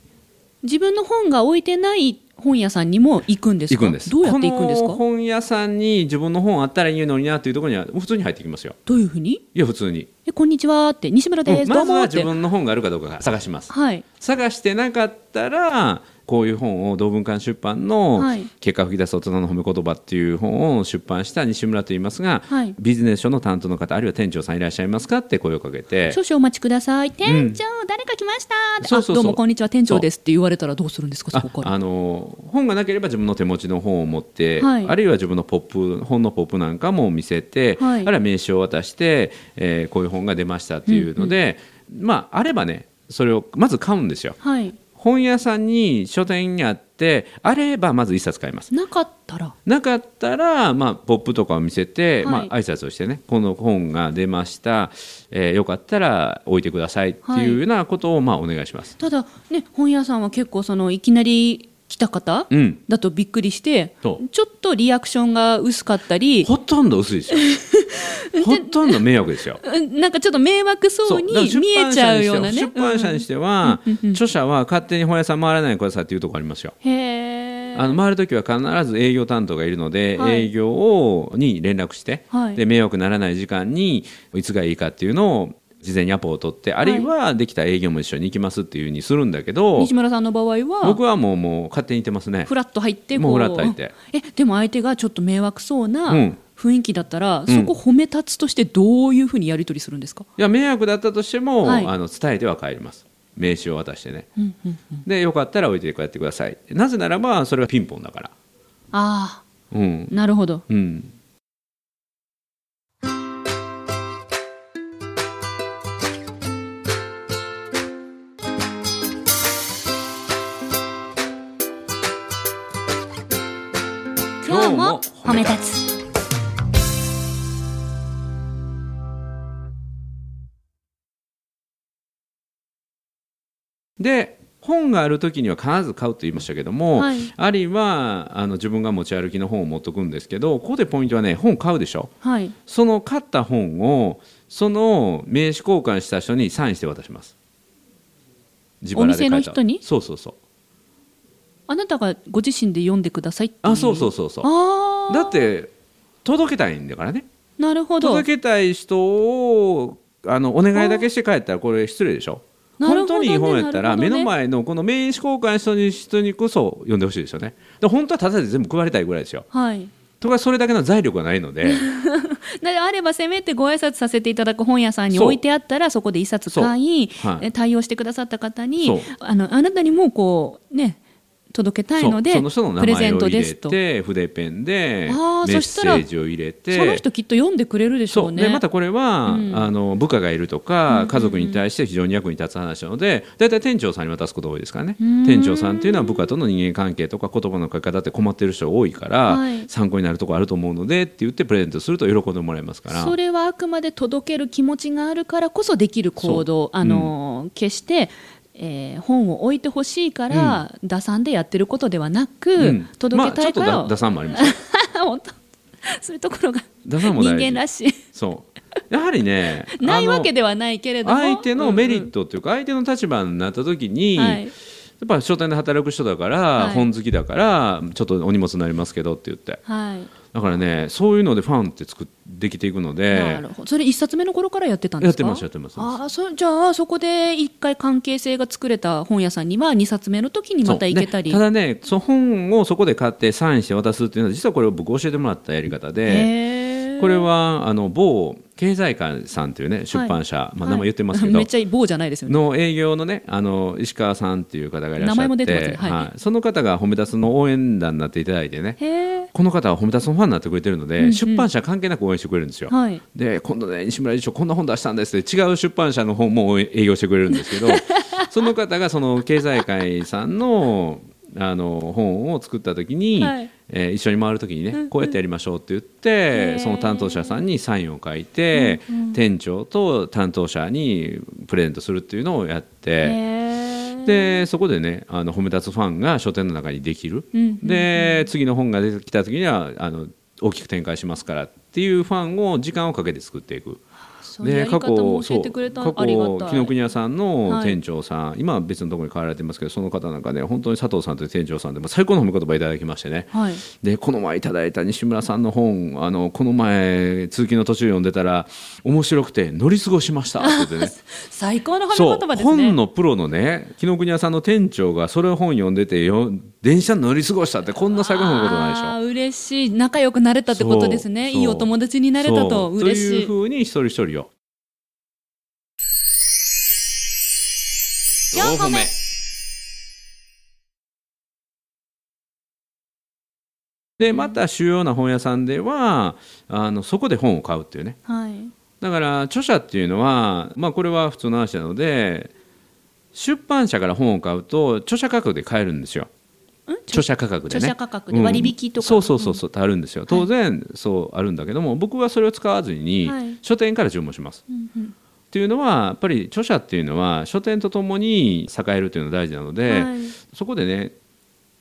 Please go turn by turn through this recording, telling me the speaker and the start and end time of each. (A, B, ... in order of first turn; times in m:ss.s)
0:00.6-0:05.0 A
0:03.7-0:08.8 B
0:08.9-0:09.4 A
0:09.6-0:10.1 B
0:10.3-0:12.3 A
0:11.5-0:26.2 B
0:13.7-0:14.0 A
0:18.2-0:18.5 A
0:22.5-0:22.8 A
0:26.1-0:31.7 A
0:27.2-0:27.6 B
0:28.8-0:30.1 B
0:31.3-0:44.4 B
0:34.6-0:34.9 A
0:37.8-0:38.1 A
0:40.9-0:41.3 A
0:44.4-0:44.8 A
0:45.0-0:48.7 B
0:48.7-0:49.6 A
0:49.7-0:58.9 B
0:52.2-0:52.5 A
0:57.2-0:57.6 A
0:59.0-1:06.5 A
1:02.5-1:02.8 B
1:06.4-1:07.6 B
1:07.5-1:09.0 A
1:08.4-1:09.6 B
1:09.6-1:14.2 A
1:11.0-1:16.8 B
1:16.8-1:18.0 A
1:17.8-1:29.9 B
1:20.2-1:20.5 A
1:22.3-1:22.6 A
1:26.8-1:27.1 A
1:29.8-1:31.0 A
1:30.8-1:32.5 B
1:32.5-1:40.3 A
1:33.2-1:33.9 B
1:36.1-1:36.4 B
1:37.5-1:37.7 B
1:40.4-1:44.3 B
1:41.6-1:41.9 A
1:44.4-1:45.0 A
1:45.1-1:48.3 B
1:48.9-1:49.5 A
1:49.7-1:50.2 B
1:50.1-1:50.6 A
1:50.7-1:51.1 B
2:04.4-2:05.8 A
2:04.4-2:05.6 B
2:14.0-2:22.1 B
2:16.9-2:17.3 A
2:22.2-2:22.5 A
2:22.7-2:27.3 B
2:28.8-2:30.4 B
2:29.0-2:29.8 A
2:31.7-2:35.5 A
2:33.6-2:34.5 B
2:35.1-2:35.7 B
2:36.2-2:37.3 B
2:37.6-2:38.3 A
2:38.0-2:49.5 B
2:40.7-2:41.1 A
2:42.8-2:44.3 A
2:49.5-2:49.9 A
2:50.2-2:51.8 B
2:51.6-3:01.0 A
2:55.1-2:55.4 B
2:56.5-2:57.5 B
2:58.8-2:59.1 B
3:01.5-3:03.8 A
3:02.0-3:07.0 B
3:05.1-3:06.1 A
3:06.7-3:08.6 A
3:08.1-3:23.2 B
3:09.3-3:09.7 A
3:10.9-3:11.6 A
3:15.0-3:16.3 A
3:19.3-3:19.7 A
3:22.9-3:35.3 A
3:26.2-3:27.1 B
3:30.3-3:30.6 B
3:32.6-3:34.6 B
3:35.8-3:38.0 A
3:36.8-3:40.3 B
3:39.8-3:42.1 A
3:41.0-3:44.5 B
3:44.2-3:44.5 A
3:45.0-3:49.6 B
3:46.6-3:46.9 A
3:49.7-3:50.1 A
3:50.3-3:53.4 B
3:53.1-4:01.4 A
3:55.0-3:56.0 B
4:00.6-4:06.3 B
4:06.1-4:07.3 A
4:07.0-4:11.5 B
4:09.9-4:12.4 A
4:12.3-4:18.8 B
4:15.0-4:16.1 A
4:18.8-4:19.3 A
4:19.3-4:43.2 B
4:21.0-4:21.5 A
4:22.7-4:23.0 A
4:27.3-4:28.3 A
4:33.2-4:33.5 A
4:34.7-4:35.2 A
4:36.3-4:37.4 A
4:38.5-4:39.2 A
4:43.0-4:44.5 A
4:44.0-4:53.8 B
4:47.3-4:48.3 A
4:54.2-4:56.8 A
4:54.4-5:11.0 B
4:57.4-4:57.8 A
5:03.3-5:03.6 A
5:10.4-5:12.8 A
5:11.9-5:19.0 B
5:17.6-5:23.3 A
5:20.5-5:24.3 B
5:28.3-5:28.9 B
5:28.3-5:28.9 A
5:34.0-5:38.0 B
5:34.0-5:34.4 A
5:38.1-5:38.5 A
5:38.8-5:42.3 B
5:43.1-5:46.1 B
5:46.7-5:49.4 A
5:46.9-5:54.4 B
5:53.0-5:53.4 A
5:54.5-5:54.9 A
5:55.3-6:00.9 B
5:59.7-6:00.2 A